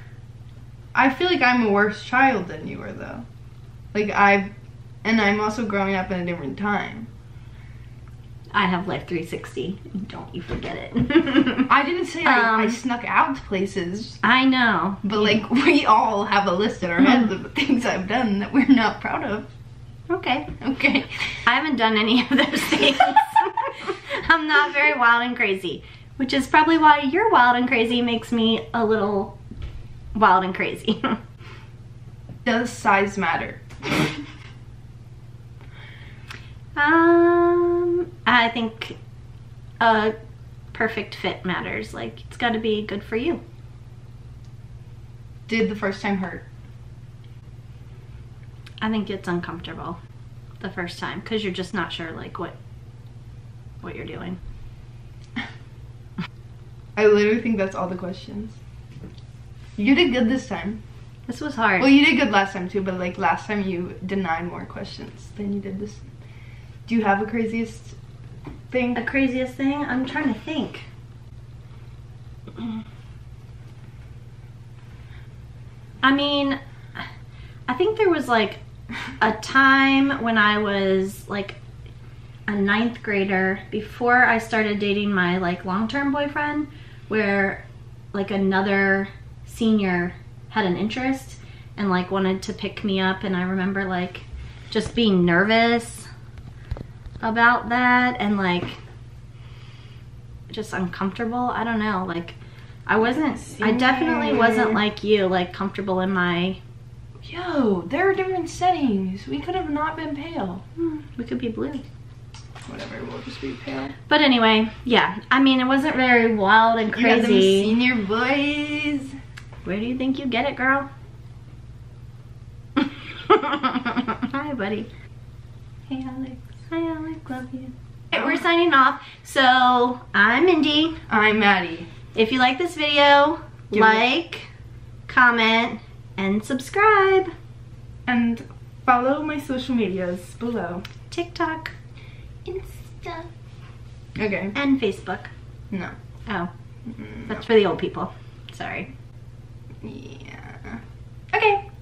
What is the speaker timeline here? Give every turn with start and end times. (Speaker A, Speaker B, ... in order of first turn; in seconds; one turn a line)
Speaker A: 0.9-3.2
Speaker A: 3.9-4.5
Speaker A: 5.0-7.1
Speaker B: 8.5-12.8
Speaker A: 11.7-14.2
Speaker B: 14.2-15.3
Speaker A: 15.0-19.5
Speaker B: 20.1-20.6
Speaker A: 20.6-21.3
Speaker B: 21.5-29.4
Speaker B: 30.1-31.2
Speaker A: 32.5-34.2
Speaker B: 36.8-39.0
Speaker B: 39.8-40.1
Speaker B: 40.7-43.4
Speaker A: 45.5-46.5
Speaker B: 48.8-50.0
Speaker B: 50.6-52.6
Speaker B: 53.8-54.4
Speaker A: 57.0-58.6
Speaker A: 59.8-60.8
Speaker B: 61.3-61.9
Speaker A: 61.8-66.1
Speaker A: 66.9-68.0
Speaker A: 68.7-69.0
Speaker B: 69.0-70.9
Speaker B: 76.0-77.0
Speaker B: 77.7-78.6
Speaker B: 79.2-81.6
Speaker B: 82.5-96.1
Speaker B: 97.2-98.8
Speaker B: 100.5-106.6
Speaker A: 103.4-104.8
Speaker A: 107.2-110.6
Speaker B: 110.8-111.8
Speaker A: 112.7-113.9
Speaker B: 114.1-117.8
Speaker A: 116.9-119.1
Speaker B: 119.7-120.9
Speaker B: 122.8-124.9
Speaker B: 125.9-131.0
Speaker A: 131.1-131.9
Speaker B: 132.2-134.5
Speaker A: 133.7-134.0
Speaker B: 135.1-137.3
Speaker A: 138.1-140.9
Speaker B: 141.1-141.7
Speaker A: 142.5-143.3
Speaker A: 144.2-144.6
Speaker B: 144.6-145.3
Speaker A: 146.9-147.4
Speaker B: 147.3-148.9
Speaker A: 149.8-150.8
Speaker A: 151.3-151.6